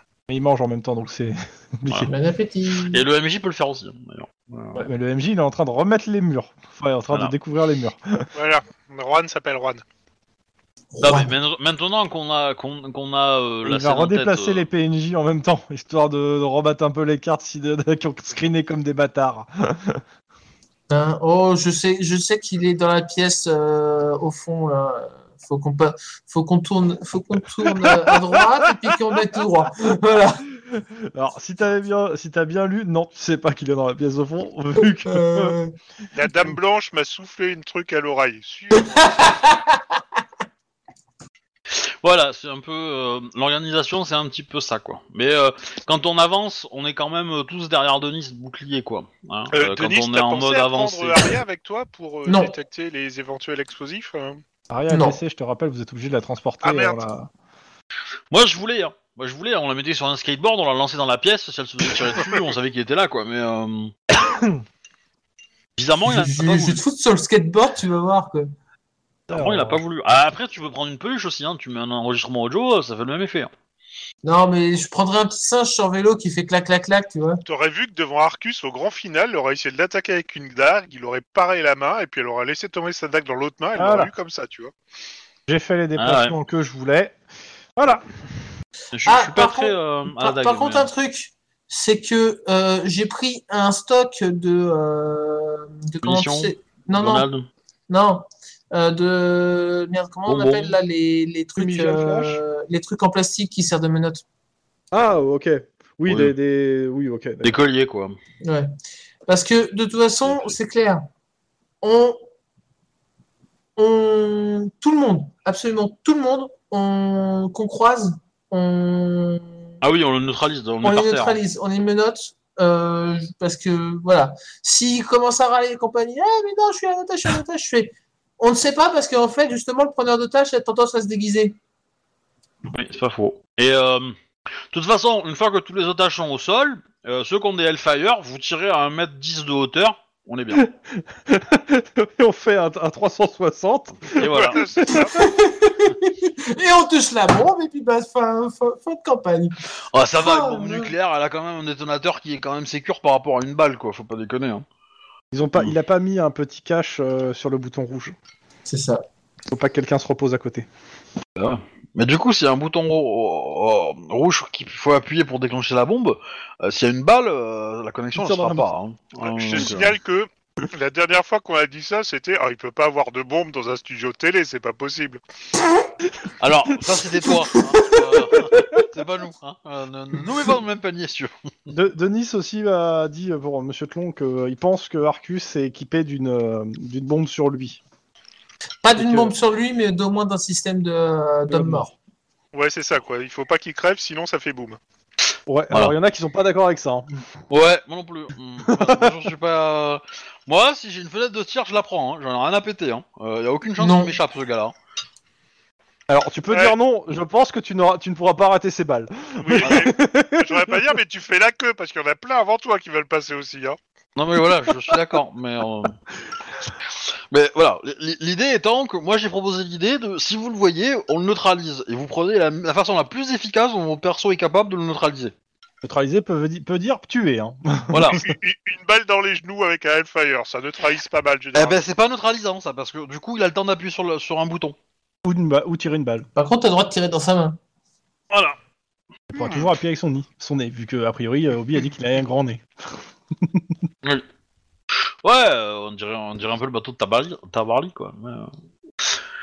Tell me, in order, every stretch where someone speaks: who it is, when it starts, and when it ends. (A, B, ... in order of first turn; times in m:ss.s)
0:00.3-0:02.1 A
0:02.1-0:03.0 B
0:02.8-0:04.9 C
0:04.8-0:08.3 A
0:08.3-0:09.8 D
0:10.9-0:11.3 B
0:11.0-0:14.7 C
0:13.6-0:19.9 A
0:20.9-0:30.4 B
0:27.8-0:28.9 A
0:30.7-0:35.6 A
0:35.1-0:35.7 B
0:36.1-0:39.1 D
0:38.8-0:40.0 B
0:41.8-0:51.4 C
0:49.5-0:54.4 D
0:52.3-0:52.6 B
0:54.7-0:57.3 A
0:54.9-0:55.2 B
0:56.6-0:57.0 D
0:58.3-1:04.0 C
1:05.8-1:06.8 C
1:06.0-1:08.5 B
1:09.3-1:09.8 A
1:09.3-1:13.5 C
1:14.2-1:17.4 B
1:17.4-1:24.7 D
1:23.8-1:24.1 A
1:25.5-1:27.2 A
1:26.0-1:26.4 C
1:27.8-1:28.1 A
1:28.9-1:30.9 C
1:29.1-1:37.3 B
1:36.0-1:37.5 C
1:37.9-1:44.2 B
1:40.3-1:40.8 C
1:41.6-1:42.4 A
1:44.9-1:47.6 A
1:46.1-1:46.3 C
1:47.4-1:48.2 C
1:48.4-1:48.7 B
1:49.3-1:51.1 B
1:50.3-1:50.6 C
1:51.8-1:52.2 B
1:53.8-1:59.5 B
1:59.8-2:01.4 C
2:00.8-2:11.6 B
2:12.7-2:14.2 C
2:14.7-2:20.6 C
2:20.5-2:25.1 A
2:24.2-2:24.7 C
2:24.2-2:25.2 D
2:25.1-2:30.9 B
2:29.9-2:34.6 C
2:35.3-2:38.2 A
2:38.7-2:39.0 B
2:39.5-2:40.7 A
2:41.4-2:50.0 C
2:48.2-2:48.7 A
2:49.2-2:55.2 D
2:56.4-3:01.3 C
2:57.7-2:58.4 B
3:01.7-3:07.8 A
3:08.8-3:11.9 B
3:09.0-3:09.3 A
3:11.5-3:11.9 A
3:12.5-3:14.8 D
3:15.5-3:17.1 A
3:17.5-3:24.7 C
3:18.7-3:19.2 A
3:23.8-3:24.2 B
3:26.1-3:30.8 A
3:26.5-3:26.8 D
3:29.4-3:33.8 D
3:29.6-3:29.9 C
3:34.2-3:36.0 C
3:37.3-3:45.3 C
3:45.8-3:48.3 A
3:47.9-3:48.2 C
3:48.1-3:51.8 D
3:51.5-3:54.8 C
3:55.2-3:56.3 A
3:56.4-3:57.6 B
3:58.3-3:58.6 C
3:59.3-4:02.6 A
4:05.2-4:08.5 C